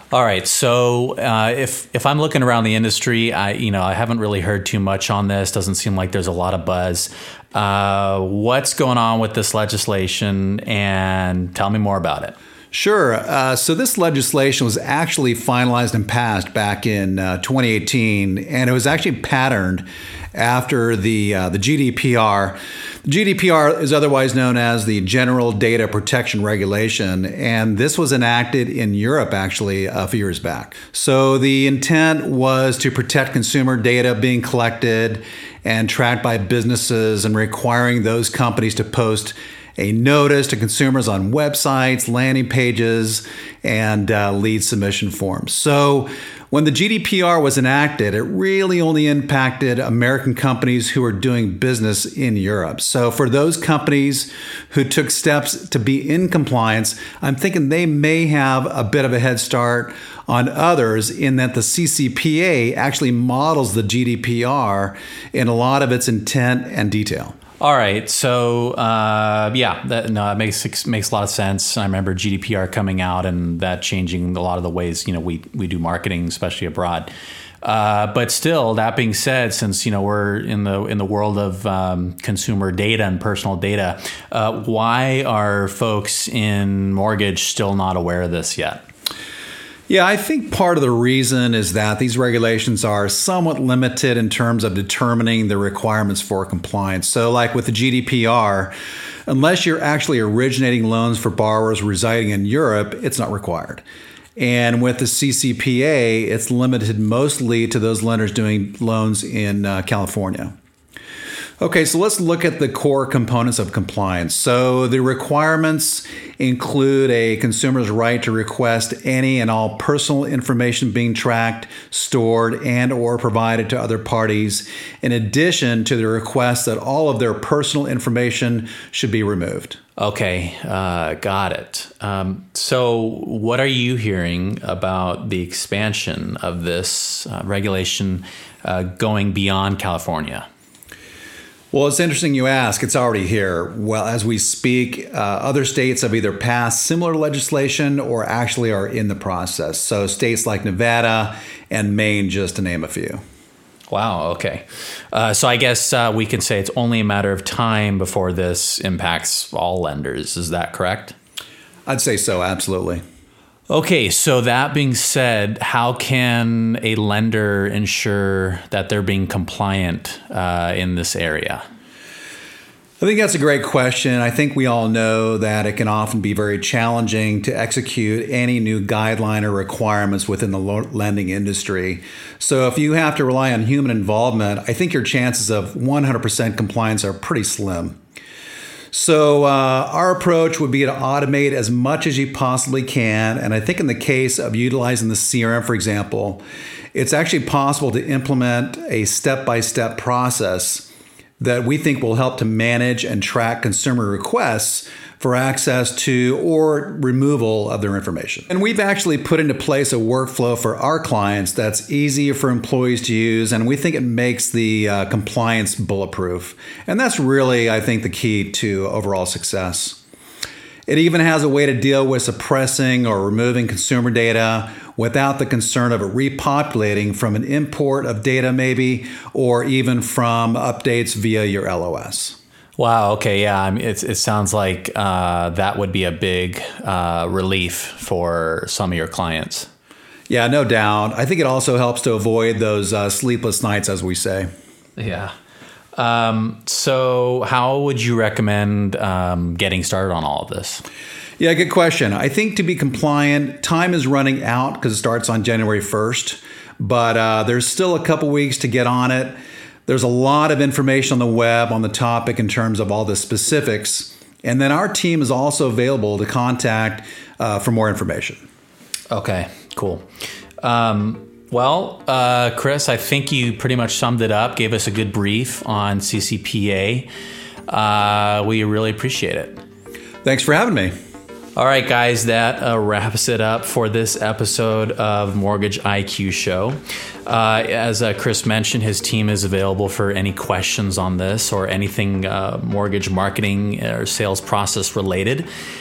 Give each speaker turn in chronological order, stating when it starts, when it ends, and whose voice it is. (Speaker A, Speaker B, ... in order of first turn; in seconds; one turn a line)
Speaker A: 0.1-12.3
Speaker B: 12.7-67.4
Speaker A: 67.6-77.1
Speaker A: 77.6-88.8
Speaker B: 89.9-98.7
Speaker B: 99.3-103.8
Speaker B: 104.4-110.5
Speaker B: 111.6-129.8
Speaker A: 130.0-140.5
Speaker B: 141.7-153.2
Speaker A: 153.9-161.1
Speaker B: 161.9-163.0
Speaker A: 163.7-171.6
Speaker B: 173.0-188.0
Speaker B: 188.9-196.4
Speaker B: 196.9-200.9
Speaker B: 201.4-220.0
Speaker B: 220.9-232.4
Speaker A: 232.8-239.7
Speaker B: 240.3-244.5
Speaker A: 245.0-245.3
Speaker A: 245.9-250.8
Speaker B: 251.4-259.4
Speaker B: 259.9-268.4
Speaker A: 269.1-270.0
Speaker A: 270.6-277.1
Speaker A: 277.7-279.6
Speaker B: 280.2-280.9
Speaker A: 281.6-295.5